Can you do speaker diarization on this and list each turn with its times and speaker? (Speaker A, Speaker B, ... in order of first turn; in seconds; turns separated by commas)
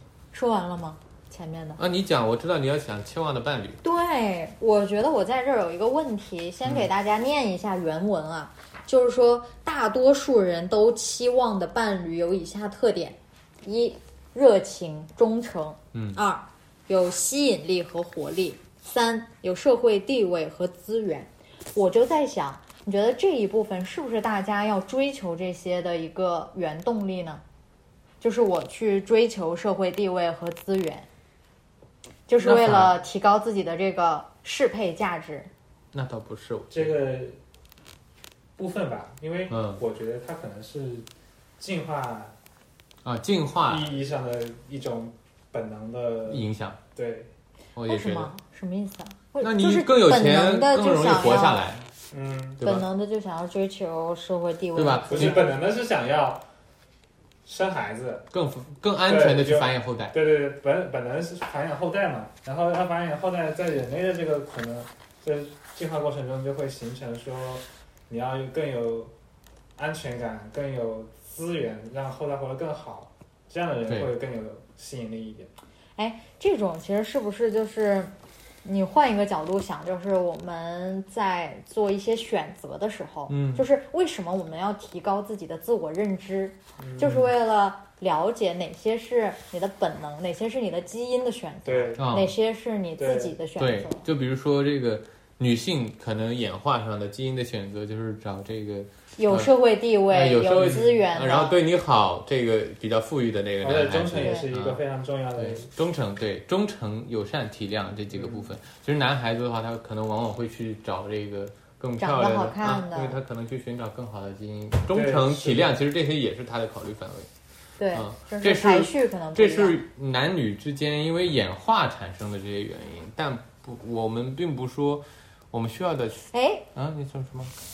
Speaker A: 0.3-1.8, Speaker B: 1.8-3.8, Speaker A: 3.8-27.4, Speaker B: 15.9-16.2, Speaker A: 28.2-31.1, Speaker A: 32.3-35.5, Speaker B: 32.4-32.9, Speaker B: 35.9-37.0, Speaker C: 36.7-37.4, Speaker C: 38.6-41.1, Speaker B: 39.5-39.8, Speaker C: 41.6-42.4, Speaker B: 43.0-43.9, Speaker C: 43.6-47.3, Speaker B: 46.3-46.8, Speaker B: 47.8-48.3, Speaker A: 47.9-51.6, Speaker B: 49.4-51.9, Speaker C: 52.1-52.6, Speaker B: 52.6-52.9, Speaker A: 52.6-55.5, Speaker B: 54.8-55.5, Speaker C: 55.1-56.4, Speaker C: 57.5-58.3, Speaker B: 58.3-60.2, Speaker C: 59.0-69.1, Speaker C: 69.8-75.5, Speaker A: 76.0-78.1, Speaker A: 78.6-94.0, Speaker B: 83.3-83.7, Speaker C: 86.8-87.3, Speaker C: 91.7-92.2, Speaker B: 92.0-92.3, Speaker C: 93.0-93.4, Speaker B: 93.6-99.5, Speaker A: 99.2-101.6, Speaker B: 100.1-104.8, Speaker C: 100.6-100.9, Speaker C: 103.6-105.7, Speaker A: 104.2-104.5, Speaker B: 105.4-117.3, Speaker C: 108.1-108.5, Speaker A: 112.0-113.2, Speaker C: 114.9-115.8, Speaker A: 117.8-119.8, Speaker B: 117.9-127.5, Speaker A: 126.3-126.7